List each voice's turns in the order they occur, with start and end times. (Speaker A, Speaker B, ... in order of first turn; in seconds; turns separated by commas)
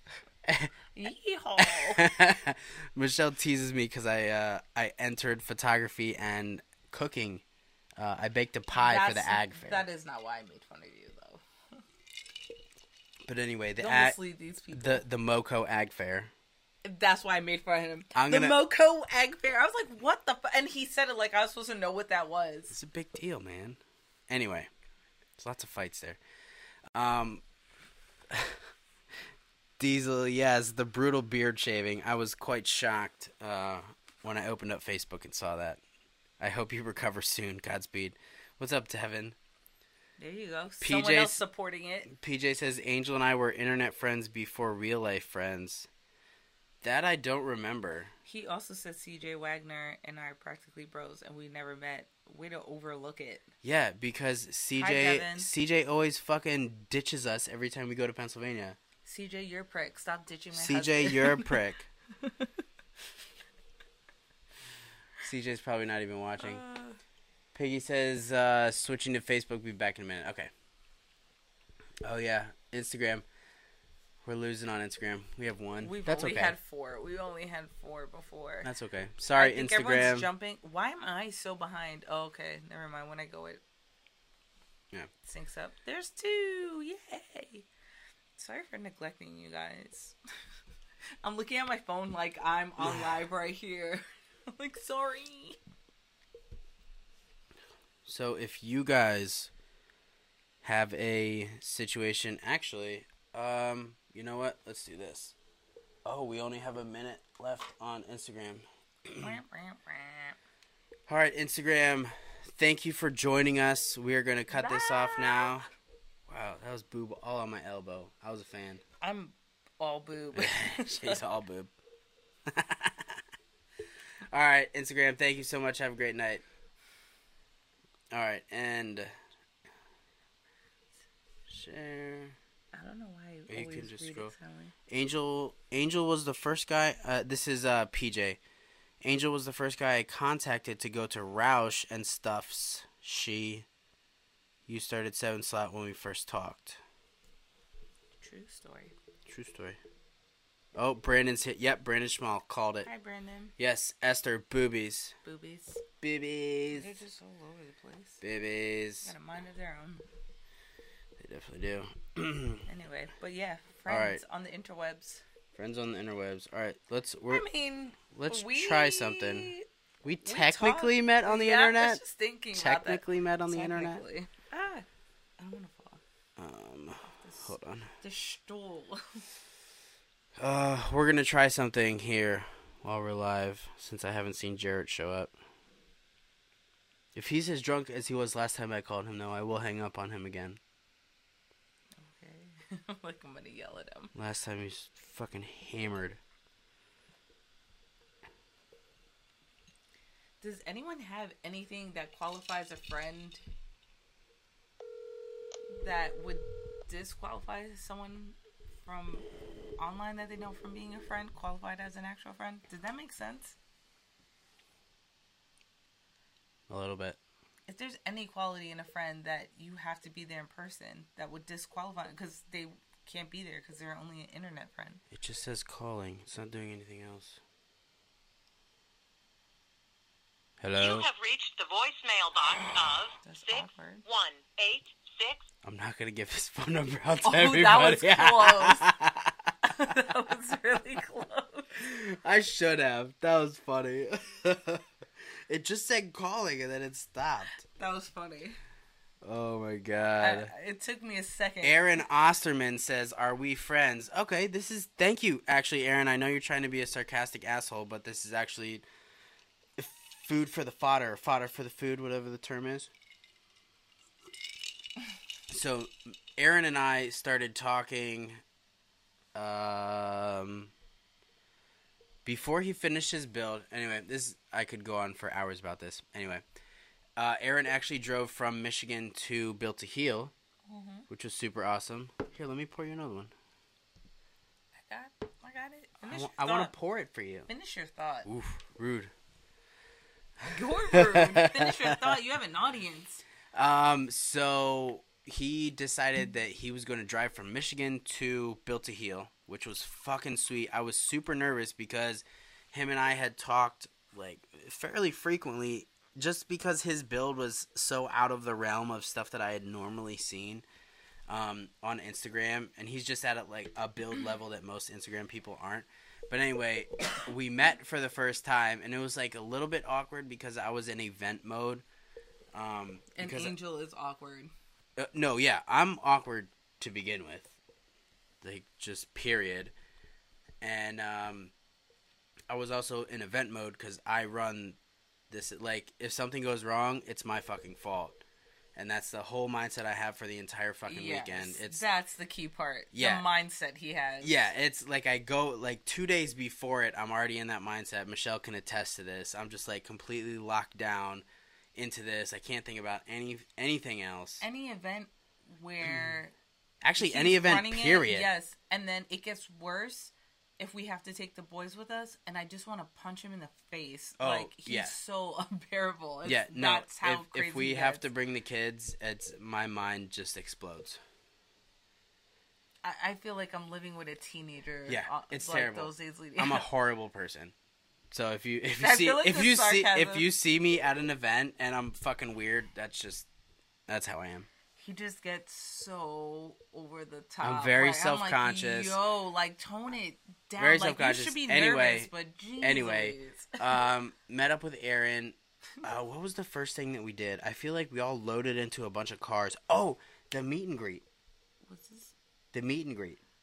Speaker A: 0.5-0.8, Speaker B: 0.9-2.0, Speaker A: 1.6-7.4, Speaker A: 8.0-9.8, Speaker B: 8.7-11.8, Speaker A: 13.3-14.2, Speaker B: 13.8-15.0, Speaker A: 14.7-16.3, Speaker B: 16.8-22.8, Speaker A: 18.1-18.6, Speaker A: 22.7-24.7, Speaker A: 25.4-26.2, Speaker A: 26.9-27.4, Speaker A: 28.3-28.6, Speaker A: 29.8-35.8, Speaker A: 36.4-39.4, Speaker B: 40.2-42.1, Speaker A: 40.8-41.4, Speaker A: 42.1-45.9, Speaker A: 46.8-48.1, Speaker B: 48.3-53.5, Speaker A: 53.6-58.8, Speaker B: 54.8-55.5, Speaker B: 59.0-61.6, Speaker A: 60.5-61.9, Speaker B: 62.2-62.5, Speaker A: 65.2-66.6, Speaker B: 66.4-67.0, Speaker A: 67.5-70.5, Speaker A: 72.0-73.2, Speaker A: 74.2-76.5, Speaker B: 75.8-78.7, Speaker A: 78.6-80.3, Speaker B: 79.4-83.6, Speaker B: 85.2-87.7, Speaker B: 88.4-90.2, Speaker B: 91.2-95.6, Speaker A: 92.8-93.2, Speaker A: 98.1-99.5, Speaker A: 100.6-105.3, Speaker A: 106.0-109.4, Speaker B: 109.2-110.4, Speaker A: 111.1-115.7, Speaker B: 114.5-115.6, Speaker A: 116.3-118.8, Speaker B: 119.0-121.2, Speaker A: 120.3-121.7, Speaker A: 122.5-123.2, Speaker A: 124.3-126.4, Speaker A: 128.1-129.1, Speaker A: 131.5-132.4, Speaker B: 132.7-134.8, Speaker A: 133.5-134.3, Speaker A: 134.9-138.4, Speaker A: 139.0-143.7, Speaker A: 144.7-146.8, Speaker B: 148.2-148.9, Speaker A: 149.3-149.8, Speaker A: 150.8-152.9, Speaker B: 152.8-153.5, Speaker A: 153.6-155.2, Speaker B: 155.2-155.8, Speaker A: 156.0-157.0, Speaker B: 156.7-158.2, Speaker A: 158.2-159.1, Speaker B: 159.0-160.1, Speaker A: 161.2-162.7, Speaker B: 162.7-165.2, Speaker A: 163.9-164.2, Speaker A: 165.5-167.5, Speaker B: 167.3-169.7, Speaker A: 168.1-169.5, Speaker A: 170.0-172.0, Speaker B: 170.2-174.9, Speaker A: 172.5-174.0, Speaker B: 175.4-176.0, Speaker A: 176.4-177.9, Speaker B: 177.1-179.2, Speaker A: 180.4-185.3, Speaker A: 187.2-190.6, Speaker B: 192.0-194.1, Speaker A: 194.2-196.2, Speaker B: 200.4-203.4, Speaker B: 205.7-209.3, Speaker B: 209.8-213.6, Speaker A: 216.7-217.2, Speaker B: 217.7-225.0, Speaker A: 225.1-227.4, Speaker A: 230.6-231.1, Speaker C: 230.8-235.4, Speaker B: 233.2-234.0, Speaker A: 235.6-240.0, Speaker B: 237.2-238.9, Speaker B: 239.6-241.7, Speaker A: 241.8-244.8, Speaker A: 245.5-247.6, Speaker B: 247.6-248.6, Speaker A: 249.2-250.5, Speaker B: 250.2-252.1, Speaker A: 251.6-258.9, Speaker A: 259.8-262.9, Speaker A: 265.5-268.4, Speaker A: 269.4-270.7, Speaker A: 272.2-276.4, Speaker A: 277.2-280.3, Speaker B: 280.7-281.1, Speaker A: 281.1-283.3, Speaker B: 284.8-286.7, Speaker A: 286.1-287.5, Speaker B: 287.5-288.3, Speaker A: 288.3-289.1, Speaker A: 290.4-292.0, Speaker B: 290.5-293.2, Speaker A: 293.5-310.6, Speaker A: 311.3-321.8, Speaker A: 322.5-323.6, Speaker B: 323.1-324.5, Speaker A: 325.0-327.6, Speaker A: 328.4-329.7, Speaker A: 330.6-331.5, Speaker A: 332.5-334.8, Speaker A: 335.3-338.2, Speaker A: 338.8-341.8, Speaker B: 340.9-344.4, Speaker A: 342.9-343.2, Speaker A: 344.2-354.4, Speaker B: 354.4-356.3, Speaker A: 355.8-356.2, Speaker A: 356.8-358.3, Speaker B: 357.0-368.1, Speaker A: 364.2-364.9, Speaker A: 366.2-371.0, Speaker B: 372.8-376.7, Speaker A: 374.9-377.5, Speaker A: 378.1-383.3, Speaker B: 378.8-380.3, Speaker A: 383.9-384.5, Speaker B: 384.8-393.8, Speaker A: 387.4-389.0, Speaker A: 390.6-392.1, Speaker A: 392.6-401.1, Speaker B: 401.7-402.1, Speaker A: 402.5-403.2